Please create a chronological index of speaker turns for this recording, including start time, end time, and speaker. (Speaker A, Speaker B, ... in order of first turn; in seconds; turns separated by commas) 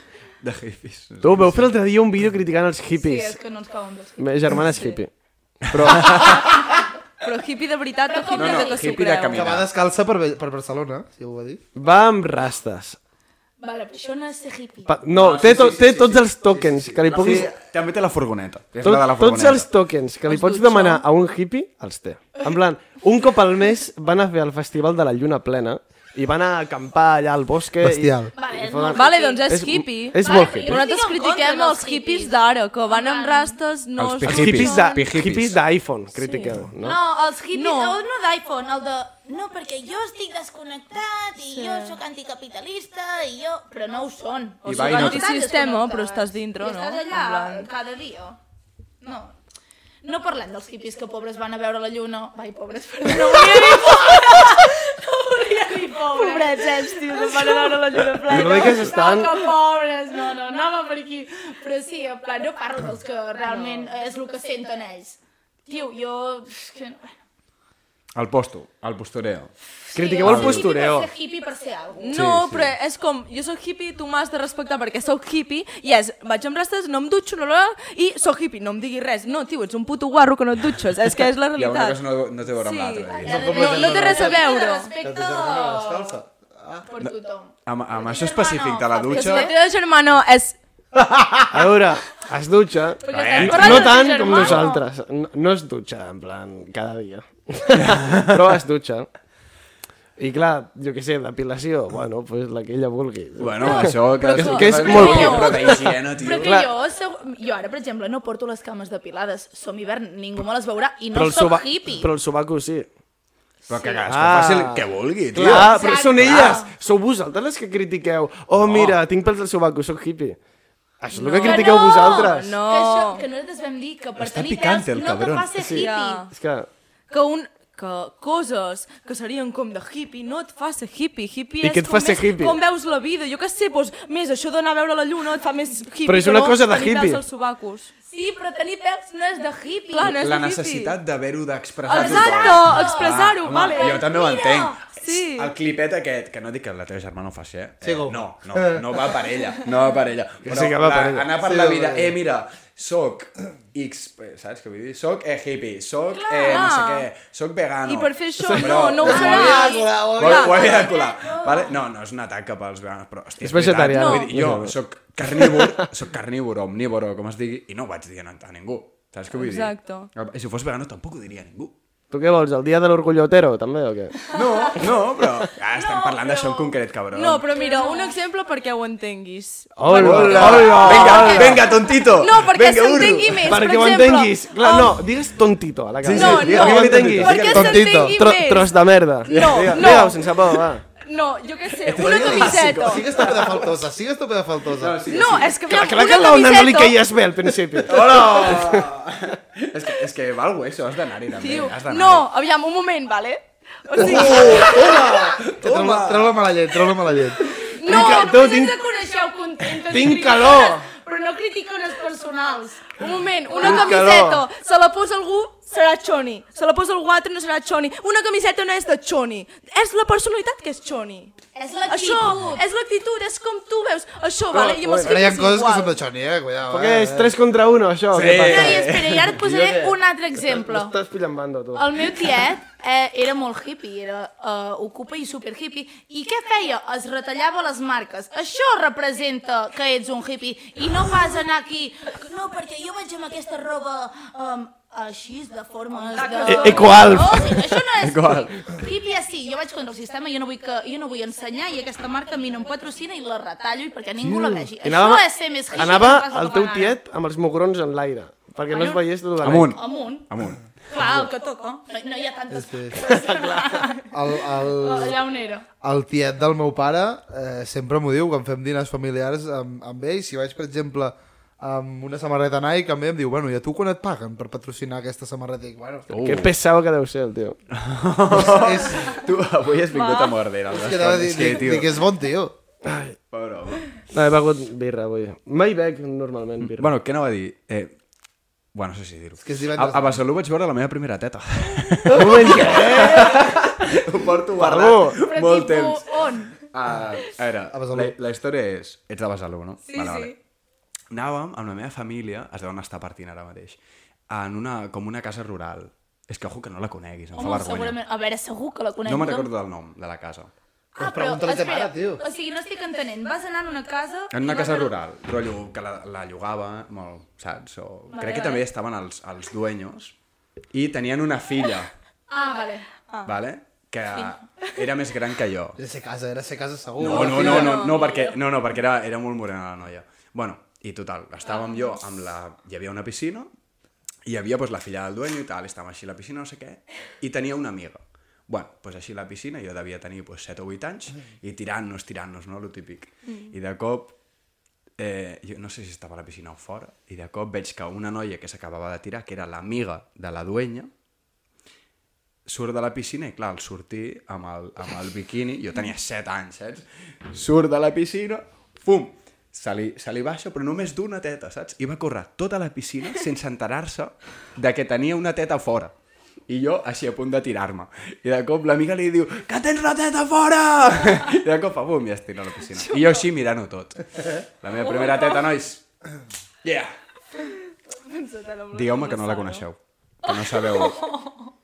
Speaker A: 0.4-1.7, Speaker B: 1.2-3.4, Speaker C: 2.9-5.0, Speaker B: 4.2-5.1, Speaker B: 5.7-6.4, Speaker A: 5.8-6.5, Speaker C: 6.5-6.8, Speaker D: 7.2-9.5, Speaker C: 8.1-9.0, Speaker A: 8.3-9.7, Speaker E: 9.3-11.6, Speaker B: 11.7-13.0, Speaker C: 13.6-15.0, Speaker B: 14.8-17.5, Speaker A: 15.1-16.1, Speaker E: 15.3-17.3, Speaker A: 17.0-19.7, Speaker B: 18.8-30.8, Speaker C: 20.3-21.0, Speaker D: 20.3-20.9, Speaker E: 27.8-28.3, Speaker C: 28.3-29.5, Speaker D: 28.9-35.0, Speaker C: 30.2-33.6, Speaker A: 34.0-35.6, Speaker B: 34.2-37.0, Speaker D: 36.2-36.6, Speaker C: 36.8-48.4, Speaker D: 37.5-38.0, Speaker D: 41.4-42.0, Speaker D: 44.6-47.7, Speaker A: 44.6-45.3, Speaker C: 49.0-49.4, Speaker C: 50.0-67.1, Speaker D: 56.1-58.9, Speaker B: 58.3-59.3, Speaker D: 63.5-63.9, Speaker A: 68.1-69.5, Speaker C: 69.9-72.3, Speaker B: 69.9-71.1, Speaker A: 70.2-70.7, Speaker D: 72.0-84.9, Speaker A: 72.1-72.7, Speaker A: 81.5-83.5, Speaker C: 83.1-86.2, Speaker E: 83.2-84.5, Speaker E: 85.0-86.9, Speaker C: 86.9-89.6, Speaker A: 87.6-89.5, Speaker D: 89.1-90.6, Speaker E: 90.9-91.5, Speaker B: 91.5-99.1, Speaker C: 93.0-94.8, Speaker A: 93.1-94.6, Speaker A: 97.7-98.5, Speaker B: 100.2-106.7, Speaker A: 103.4-106.6, Speaker D: 103.6-105.8, Speaker C: 104.4-112.1, Speaker B: 111.1-112.9, Speaker A: 113.7-116.6, Speaker C: 113.7-114.0, Speaker B: 114.0-120.4, Speaker C: 115.5-116.7, Speaker A: 118.6-119.0, Speaker B: 121.0-122.5, Speaker D: 121.1-123.2, Speaker C: 121.4-126.3, Speaker A: 124.2-125.5, Speaker B: 125.5-126.7, Speaker D: 125.7-126.3, Speaker D: 127.1-137.9, Speaker B: 131.6-132.6, Speaker B: 136.1-137.2, Speaker C: 138.1-140.1, Speaker D: 139.9-141.0, Speaker A: 140.0-171.7, Speaker C: 141.8-144.8, Speaker D: 141.9-144.0, Speaker D: 144.8-145.5, Speaker E: 147.8-149.1, Speaker B: 150.4-151.3, Speaker E: 151.4-152.2, Speaker C: 156.1-156.9, Speaker D: 156.5-157.1, Speaker D: 157.8-160.9, Speaker E: 159.0-160.7, Speaker C: 159.2-161.7, Speaker B: 163.4-164.8, Speaker D: 163.9-164.3, Speaker B: 165.3-165.7, Speaker D: 169.3-170.1, Speaker B: 172.1-174.9, Speaker C: 174.2-174.8, Speaker A: 174.3-177.5, Speaker C: 175.7-176.7, Speaker D: 177.1-185.1, Speaker C: 177.5-178.2, Speaker B: 179.8-181.7, Speaker A: 179.9-183.5, Speaker B: 183.4-190.8, Speaker A: 186.0-187.9, Speaker D: 186.1-188.7, Speaker E: 187.5-188.2, Speaker D: 189.2-193.7, Speaker A: 189.2-190.0, Speaker A: 191.8-193.5, Speaker E: 191.9-195.2, Speaker A: 194.8-195.6, Speaker D: 195.1-197.0, Speaker B: 195.6-198.9, Speaker A: 197.8-202.3, Speaker D: 201.4-204.7, Speaker E: 203.9-207.5, Speaker A: 203.9-206.5, Speaker C: 207.6-214.2, Speaker D: 207.6-208.3, Speaker B: 207.8-208.8, Speaker B: 209.9-210.9, Speaker D: 212.9-225.9, Speaker B: 213.6-214.4, Speaker C: 221.5-222.6, Speaker B: 224.5-225.2, Speaker E: 225.0-227.4, Speaker B: 226.7-228.9, Speaker A: 228.1-229.9, Speaker C: 228.4-230.9, Speaker B: 230.4-231.9, Speaker C: 231.7-257.0, Speaker D: 246.0-247.3, Speaker B: 246.4-247.6, Speaker A: 246.7-248.8, Speaker E: 254.2-254.7, Speaker B: 254.8-259.8, Speaker C: 258.7-259.1, Speaker A: 259.4-260.7, Speaker C: 259.7-260.3, Speaker C: 260.8-265.7, Speaker E: 262.5-263.0, Speaker B: 263.0-263.8, Speaker E: 264.1-265.2, Speaker E: 265.8-276.1, Speaker A: 276.1-276.5, Speaker B: 276.1-277.6, Speaker A: 277.7-281.9, Speaker E: 278.3-279.2, Speaker D: 279.9-280.4, Speaker E: 280.7-282.6, Speaker B: 282.8-283.1, Speaker A: 283.3-283.9, Speaker B: 284.1-286.9, Speaker A: 286.6-287.9, Speaker A: 288.7-300.4, Speaker E: 289.4-290.2, Speaker B: 292.1-293.6, Speaker B: 294.6-295.2, Speaker C: 295.2-296.7, Speaker E: 297.7-298.1, Speaker C: 299.8-300.3, Speaker A: 301.1-303.8, Speaker A: 304.3-308.0, Speaker C: 307.3-309.5, Speaker A: 309.0-310.5, Speaker E: 310.9-312.2, Speaker C: 311.0-314.9, Speaker A: 314.3-320.1, Speaker C: 318.1-318.6, Speaker A: 320.7-321.9, Speaker C: 322.3-323.0, Speaker A: 323.2-325.8, Speaker C: 324.1-324.4, Speaker E: 325.8-327.8, Speaker A: 327.0-333.5, Speaker D: 327.0-328.3, Speaker C: 327.4-328.3, Speaker A: 334.2-344.1, Speaker D: 343.3-343.5, Speaker A: 345.0-350.9, Speaker A: 352.4-365.9, Speaker A: 366.5-375.8, Speaker D: 372.7-373.3, Speaker D: 374.8-375.4, Speaker A: 376.6-376.9, Speaker D: 378.0-379.7, Speaker A: 378.7-381.1, Speaker C: 380.2-381.5